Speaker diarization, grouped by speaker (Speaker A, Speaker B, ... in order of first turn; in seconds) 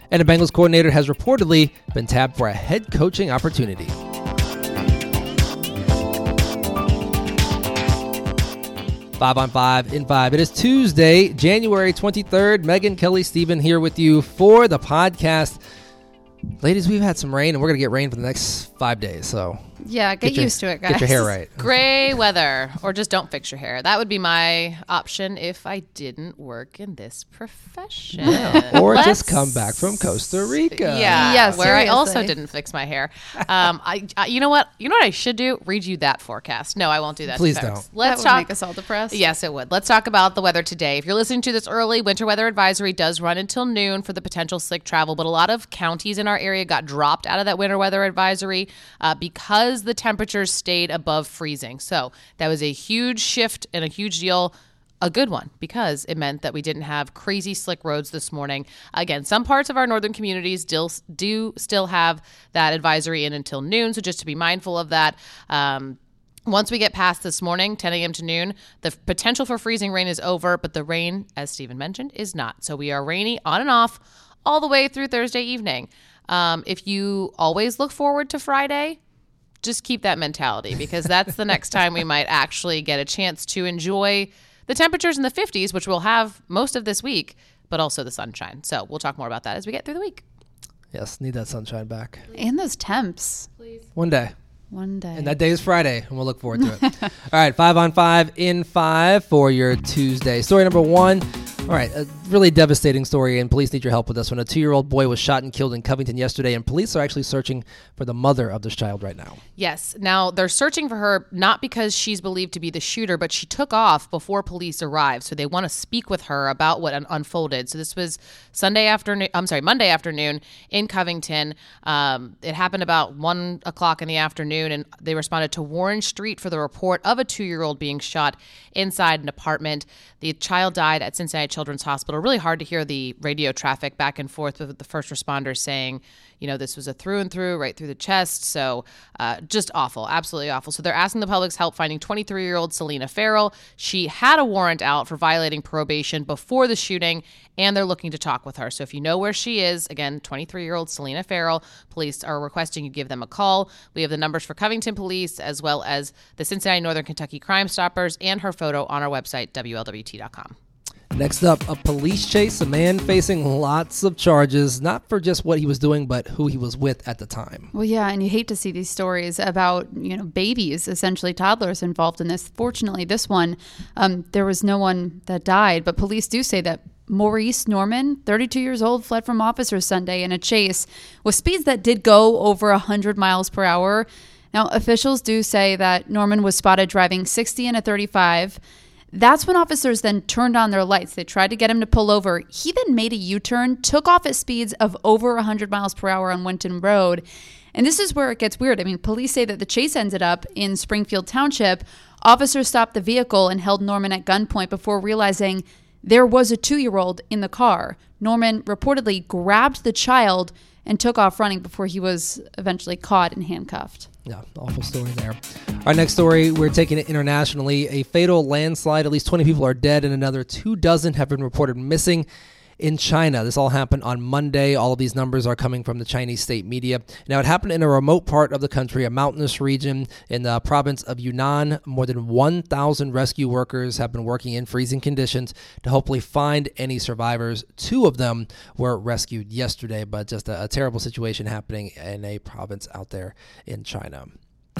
Speaker A: 0.1-4.0, 9.2-15.6, 16.6-19.6, 20.2-21.6, 28.2-31.7, 37.3-37.8, 90.9-92.3, 94.0-94.3, 95.1-109.4, 161.1-167.7, 214.2-222.2, 222.8-244.3
Speaker B: 19.8-21.3, 28.3-29.1, 31.1-32.3, 38.0-39.2, 92.3-93.5, 94.7-95.3, 167.7-188.6, 189.1-214.1
Speaker C: 21.6-29.8, 30.7-38.5, 39.1-79.0, 79.6-90.2, 109.6-160.5